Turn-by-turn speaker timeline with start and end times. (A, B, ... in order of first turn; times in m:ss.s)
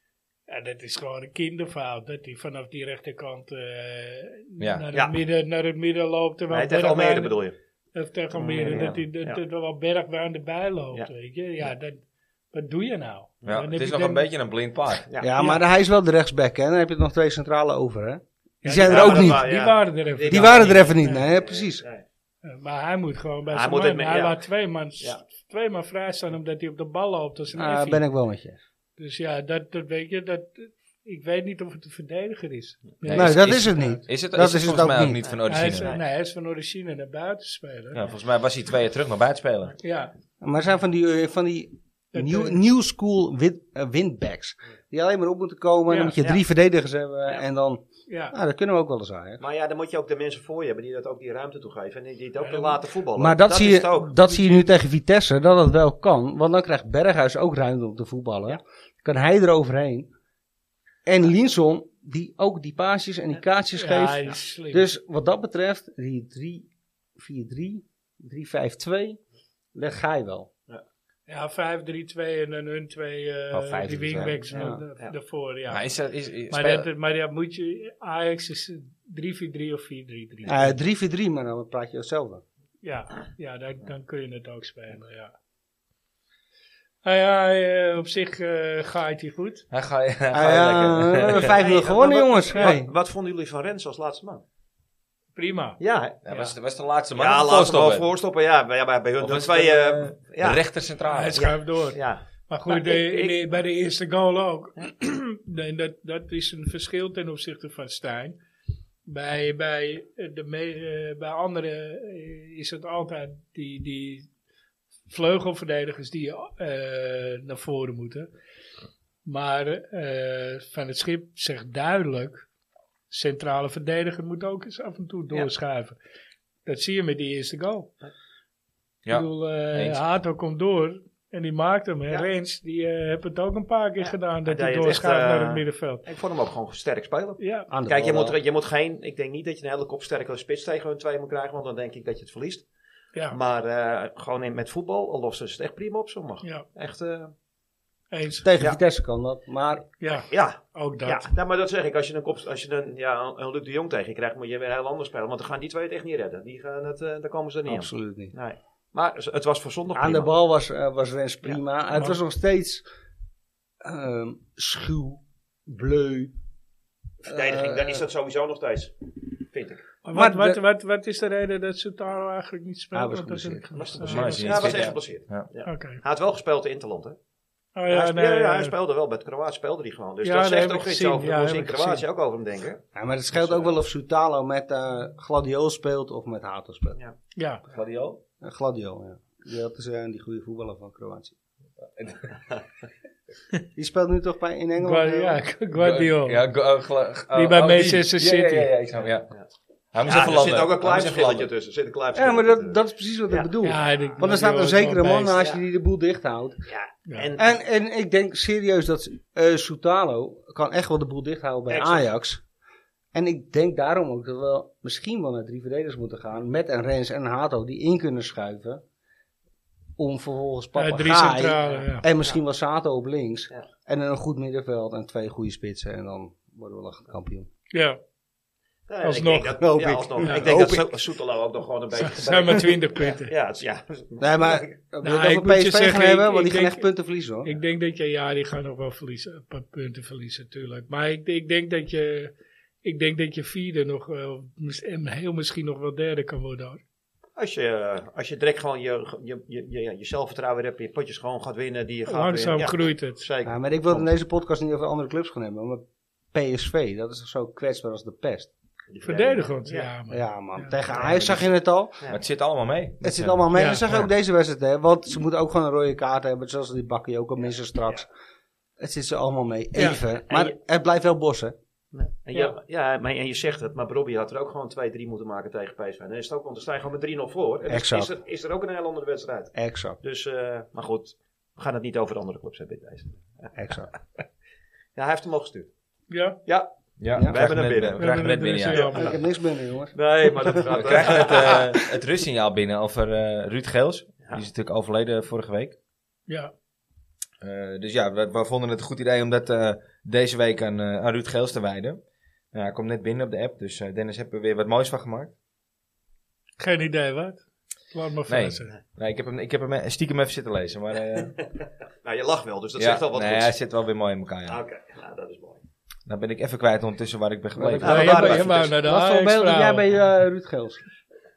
0:00.5-0:07.3 A
0:04.6-0:04.8 B
0:06.5-0:07.5 C
0:07.9-0:14.3 A
0:08.3-0:09.4 C
0:13.4-0:15.1 B
0:15.2-0:19.4 D
0:18.6-0:21.2 A
0:18.8-0:22.0 C
0:20.3-0:21.8 D
0:22.4-0:28.0 A
0:23.5-0:24.4 C
0:27.5-0:28.6 D
0:29.0-0:34.0 A
0:33.1-0:35.9 B
0:33.1-0:35.2 D
0:35.2-0:36.0 C
0:35.4-0:38.0 A
0:37.9-0:39.8 B
0:39.8-0:40.1 A
0:40.4-0:49.4 D
0:42.1-0:42.6 A
0:45.9-0:46.2 A
0:48.1-0:48.3 A
0:49.4-0:54.2 C
0:52.4-0:52.7 A
0:53.2-1:00.1 D
0:54.3-0:54.6 A
1:01.0-1:09.2 D
1:03.8-1:04.9 A
1:09.7-1:10.5 D
1:11.3-1:15.8 A
1:13.5-1:14.8 D
1:15.7-1:16.9 B
1:16.5-1:20.8 A
1:20.4-1:22.4 D
1:22.8-1:25.3 A
1:27.0-1:29.6 A
1:29.7-1:31.5 B
1:30.3-1:32.9 D
1:31.3-1:34.4 C
1:35.4-1:36.5 A
1:35.8-1:36.5 C
1:36.2-1:38.0 B
1:37.1-1:40.6 C
1:39.2-1:41.5 B
1:41.1-1:48.4 A
1:41.3-1:43.4 C
1:49.0-1:54.3 A
1:55.1-1:58.3 A
1:59.2-2:02.4 A
2:03.1-2:06.0 A
2:06.6-2:07.9 A
2:09.0-2:10.0 B
2:09.1-2:16.0 A
2:14.0-2:22.6 C
2:17.4-2:17.7 A
2:17.7-2:18.4 D
2:23.3-2:27.3 C
2:28.1-2:28.5 A
2:28.4-2:29.8 D
2:30.0-2:31.3 A
2:30.3-2:40.3 C
2:37.6-2:38.3 D
2:39.9-2:42.8 D
2:43.8-2:46.3 D
2:47.2-2:48.9 C
2:47.2-2:48.0 D
2:49.5-2:49.9 C
2:50.0-2:54.8 A
2:50.1-2:50.6 D
2:52.9-2:53.7 D
2:53.7-2:57.2 C
2:54.0-2:55.5 B
2:55.6-2:56.0 A
2:57.8-2:58.7 A
2:57.9-3:03.7 C
3:00.2-3:02.0 A
3:02.9-3:07.0 D
3:07.4-3:07.6 A
3:07.7-3:08.2 B
3:08.4-3:11.4 D
3:11.8-3:12.3 B
3:13.7-3:15.4 D
3:14.8-3:16.4 A
3:15.7-3:19.3 B
3:17.3-3:18.7 A
3:19.9-3:21.5 B
3:20.0-3:22.8 C
3:22.1-3:26.6 D
3:23.3-3:24.1 C
3:23.6-3:25.4 A
3:26.7-3:27.5 C
3:27.4-3:32.4 D
3:31.7-3:32.0 C
3:33.1-3:38.8 D
3:40.0-3:47.5 D
3:40.8-3:42.1 A
3:41.6-3:42.3 C
3:47.7-3:48.0 A
3:48.9-3:54.7 C
3:49.0-3:49.6 A
3:49.6-3:50.9 D
3:50.2-3:50.5 A
3:51.9-3:53.3 A
3:54.2-3:57.5 D
3:55.0-3:56.9 A
3:57.4-4:02.3 A
4:02.8-4:06.8 A
4:07.4-4:14.1 C
4:12.1-4:13.2 A
4:13.4-4:18.5 D
4:18.9-4:19.9 C
4:19.0-4:20.8 A
4:20.1-4:22.0 D
4:21.1-4:21.4 B
4:22.1-4:23.4 B
4:23.0-4:28.1 D
4:23.5-4:24.0 A
4:28.8-4:31.6 D
4:29.8-4:30.5 C
4:31.9-4:43.6 C
4:37.7-4:38.1 D
4:39.5-4:40.0 D
4:43.5-4:43.9 D
4:45.0-4:45.7 C
4:46.1-4:46.4 A
4:46.4-4:48.1 C
4:47.0-4:49.2 B
4:48.0-4:49.2 A
4:48.9-4:50.7 D
4:49.9-4:51.8 C
4:50.7-4:55.8 B
4:57.4-5:02.0 B
5:02.5-5:05.3 B
5:06.6-5:08.7 A
5:08.3-5:11.4 B
5:12.0-5:13.5 C
5:12.8-5:14.6 B
5:14.5-5:15.6 C
5:16.1-5:18.6 B
5:17.5-5:20.8 D
5:17.8-5:18.7 C
5:17.8-5:19.8 A